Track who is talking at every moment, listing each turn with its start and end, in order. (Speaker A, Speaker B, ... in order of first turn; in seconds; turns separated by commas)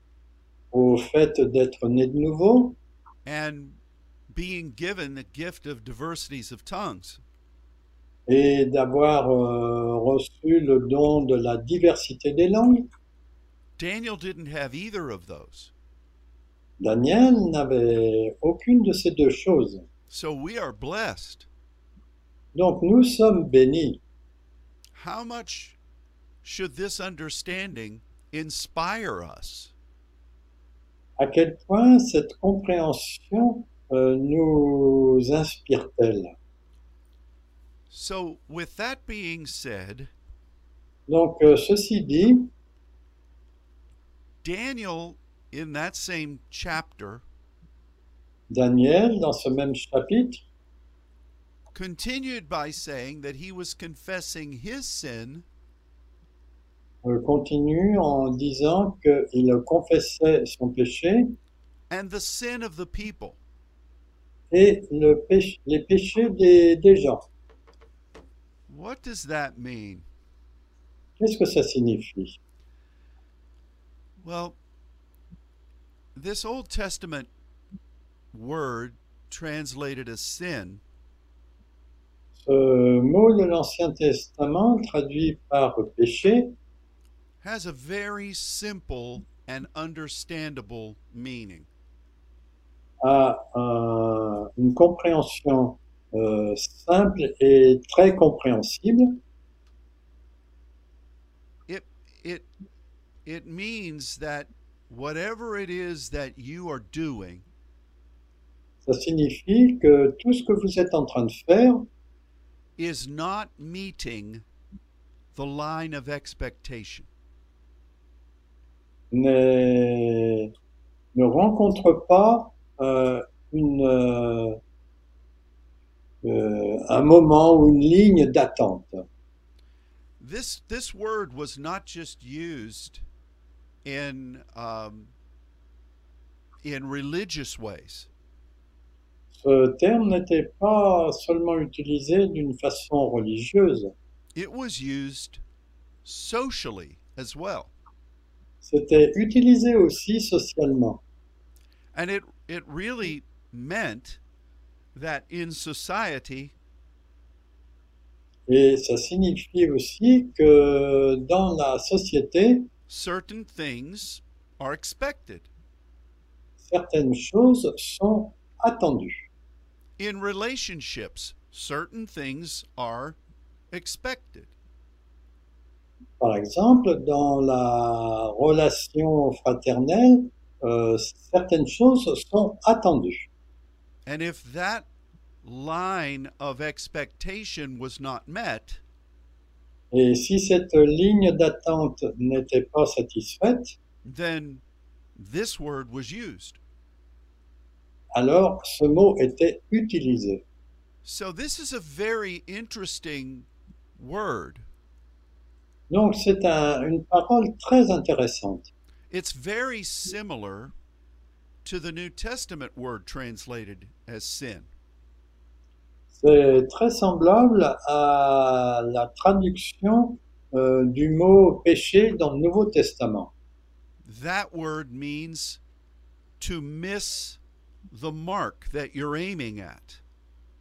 Speaker A: 0.7-2.8, Speaker B: 3.2-3.8, Speaker B: 4.3-7.2, Speaker A: 8.3-12.9, Speaker B: 13.8-15.7, Speaker A: 16.8-19.9, Speaker B: 20.1-21.5, Speaker A: 22.5-24.0, Speaker B: 24.9-25.8, Speaker B: 26.4-29.7, Speaker A: 31.2-36.4, Speaker B: 37.9-40.1, Speaker A: 41.1-42.5, Speaker B: 44.4-47.2, Speaker A: 48.5-50.4, Speaker B: 51.7-55.5, Speaker A: 57.0-61.4, Speaker B: 61.9-63.4, Speaker A: 64.5-67.2, Speaker B: 68.7-70.0, Speaker A: 71.2-72.4, Speaker B: 74.2-74.6, Speaker B: 76.2-77.3, Speaker B: 78.3-80.8, Speaker A: 82.4-86.5, Speaker B: 87.4-91.7, Speaker A: 93.0-99.2, Speaker B: 101.7-102.5, Speaker B: 103.3-107.5, Speaker A: 108.8-111.9, Speaker B: 112.8-114.5, Speaker B: 115.3-117.1, Speaker A: 119.1-120.5, Speaker A: 121.1-124.6, Speaker A: 126.2-129.1, Speaker B: 130.2-133.0, Speaker B: 133.8-135.1, Speaker B: 136.6-138.1, Speaker A: 139.3-143.9, Speaker B: 144.4-145.4, Speaker B: 146.1-147.7, Speaker A: 148.6-151.0, Speaker B: 151.9-154.2, Speaker B: 154.9-156.5, Speaker A: 158.5-162.7, Speaker B: 162.9-165.5, Speaker A: 166.6-169.3, Speaker B: 170.0-173.2, Speaker B: 173.7-174.5, Speaker A: 176.2-183.3, Speaker B: 184.1-184.9, Speaker B: 185.4-188.8, Speaker A: 189.9-193.8, Speaker B: 194.1-194.6, Speaker B: 195.2-196.6, Speaker A: 198.2-200.4, Speaker B: 201.0-203.5, Speaker B: 204.0-204.7, Speaker A: 205.9-208.7, Speaker B: 209.1-210.7, Speaker B: 211.7-214.7, Speaker A: 216.1-223.3, Speaker B: 224.1-225.6, Speaker B: 226.4-227.4, Speaker B: 227.9-230.0